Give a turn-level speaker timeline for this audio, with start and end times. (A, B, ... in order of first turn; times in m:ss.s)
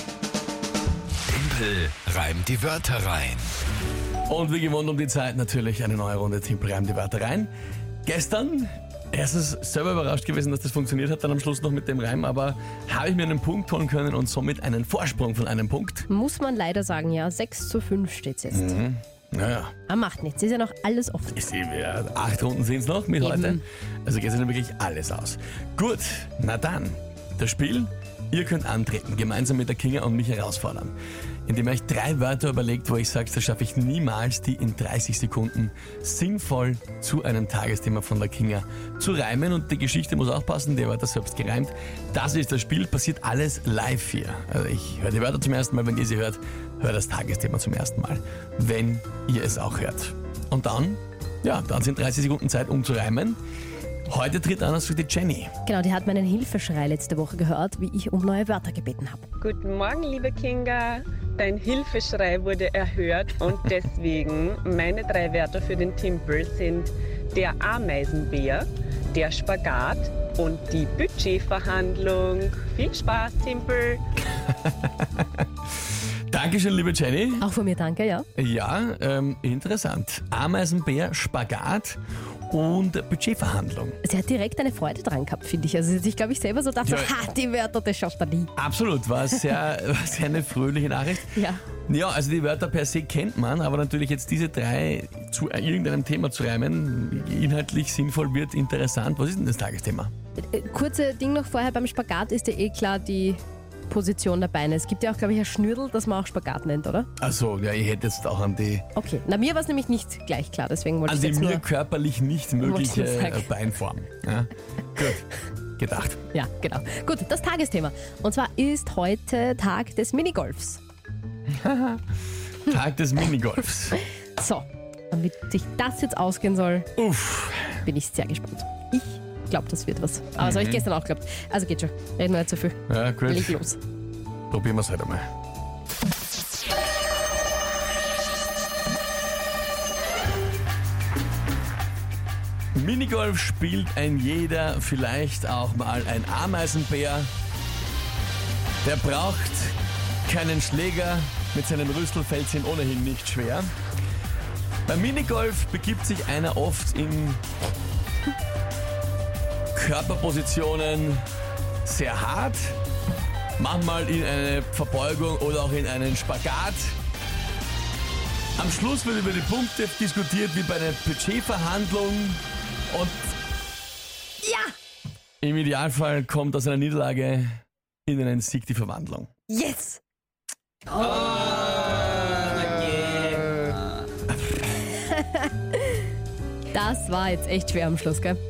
0:01.4-0:03.4 A
0:04.3-0:07.5 B
0:08.0-0:16.1 B
0:16.1-0:18.8 C
0:18.5-0:19.7 B
0:19.9-0:21.4 C
0:21.3-0:31.0 B
0:23.2-0:23.6 C
0:31.5-0:53.4 B
0:54.1-0:55.5 B
0:55.7-0:59.3 C
0:59.4-1:14.0 D
1:14.5-1:15.4 B
1:16.3-1:17.4 B
1:17.4-1:18.3 C
1:18.4-1:24.0 B
1:24.0-1:28.5 C
1:26.8-1:27.1 B
1:28.6-1:40.1 B
1:31.3-1:31.6 C
1:40.4-1:47.1 C
1:47.2-1:48.8 B
1:49.0-1:51.6 C
1:51.1-1:55.3 B
1:52.6-1:53.5 C
1:55.8-1:56.2 B
1:56.3-2:00.8 C
2:01.5-2:02.0 B
2:02.6-2:04.0 B
2:04.0-2:06.9 C
2:07.0-2:07.8 B
2:07.8-2:13.8 C
2:10.4-2:10.8 B
2:12.9-2:13.6 B
2:14.5-2:15.2 B
2:22.8-2:27.3 B
2:28.8-2:33.7 B
2:34.9-2:37.4 B
2:39.8-2:41.3 B
2:41.8-2:42.8 B
2:43.6-2:47.0 B
2:48.6-2:53.3 B
2:54.4-2:54.7 C
2:55.4-2:59.3 B
2:59.5-3:00.0 C
3:05.0-3:05.5 C
3:06.7-3:08.4 C